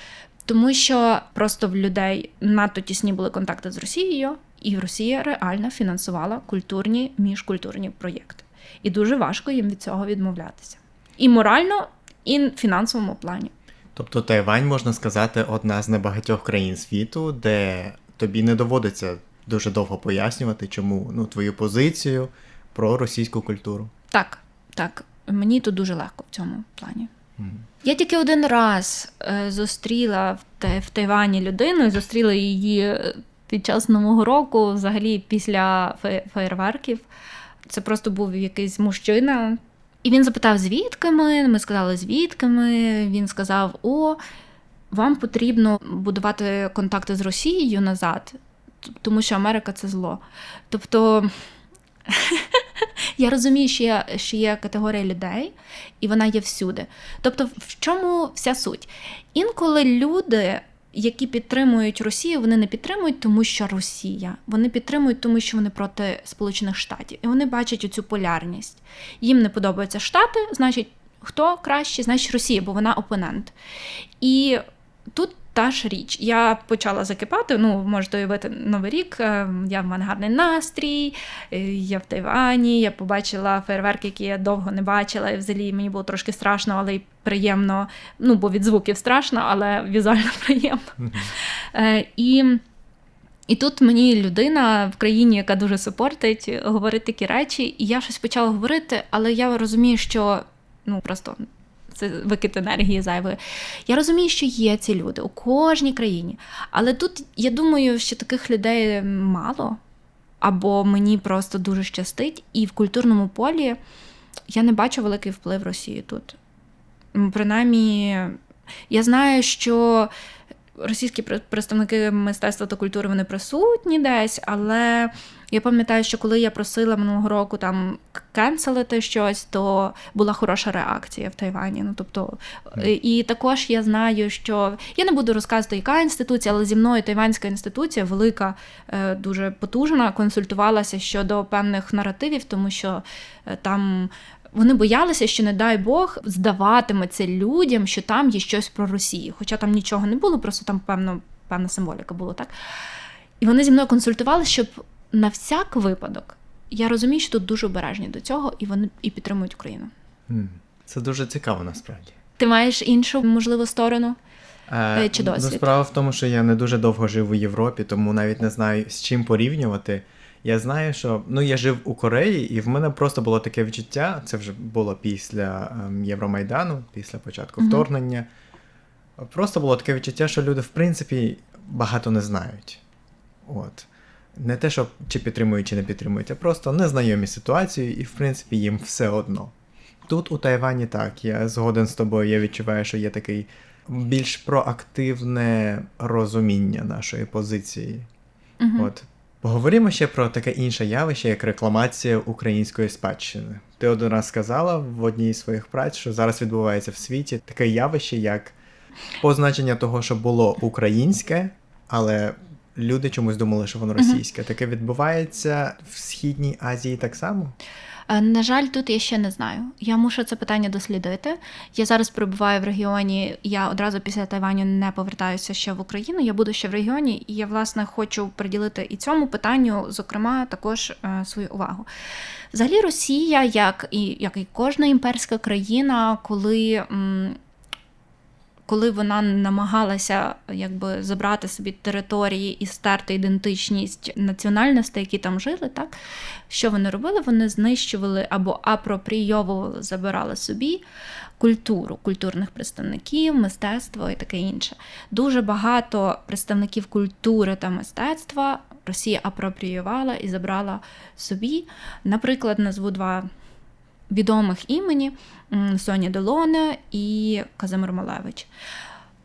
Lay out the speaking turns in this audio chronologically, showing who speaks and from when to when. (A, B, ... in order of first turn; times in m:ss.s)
0:00.5-0:13.5 A
0:13.9-0:23.9 B
0:24.1-0:27.1 A
0:27.4-0:27.6 B
0:27.8-0:37.0 A
0:37.6-0:44.2 A
0:44.9-0:51.3 A
0:52.1-0:52.6 A
0:53.2-1:13.5 A
1:14.2-1:14.6 A
1:15.1-1:32.6 A
1:31.0-1:31.3 B
1:33.5-1:49.8 A
1:50.4-1:53.8 A
1:54.5-1:56.4 A
1:57.1-1:58.4 A
1:58.9-2:00.1 A
2:00.8-2:32.5 A
2:33.4-2:39.9 A
2:40.3-2:42.2 B
2:42.4-2:44.2 A
2:44.7-2:58.3 B
2:44.9-2:45.7 A
2:57.6-2:57.8 A
2:59.2-3:02.8 B
3:03.4-3:09.5 B
3:10.0-3:18.1 B
3:18.6-3:18.9 A
3:18.8-3:28.5 B
3:29.2-3:37.6 B
3:38.1-3:51.9 A
3:52.5-3:57.4 A
3:58.7-4:05.9 A
4:06.5-4:10.8 A
4:11.4-4:23.2 A
4:24.1-4:28.5 A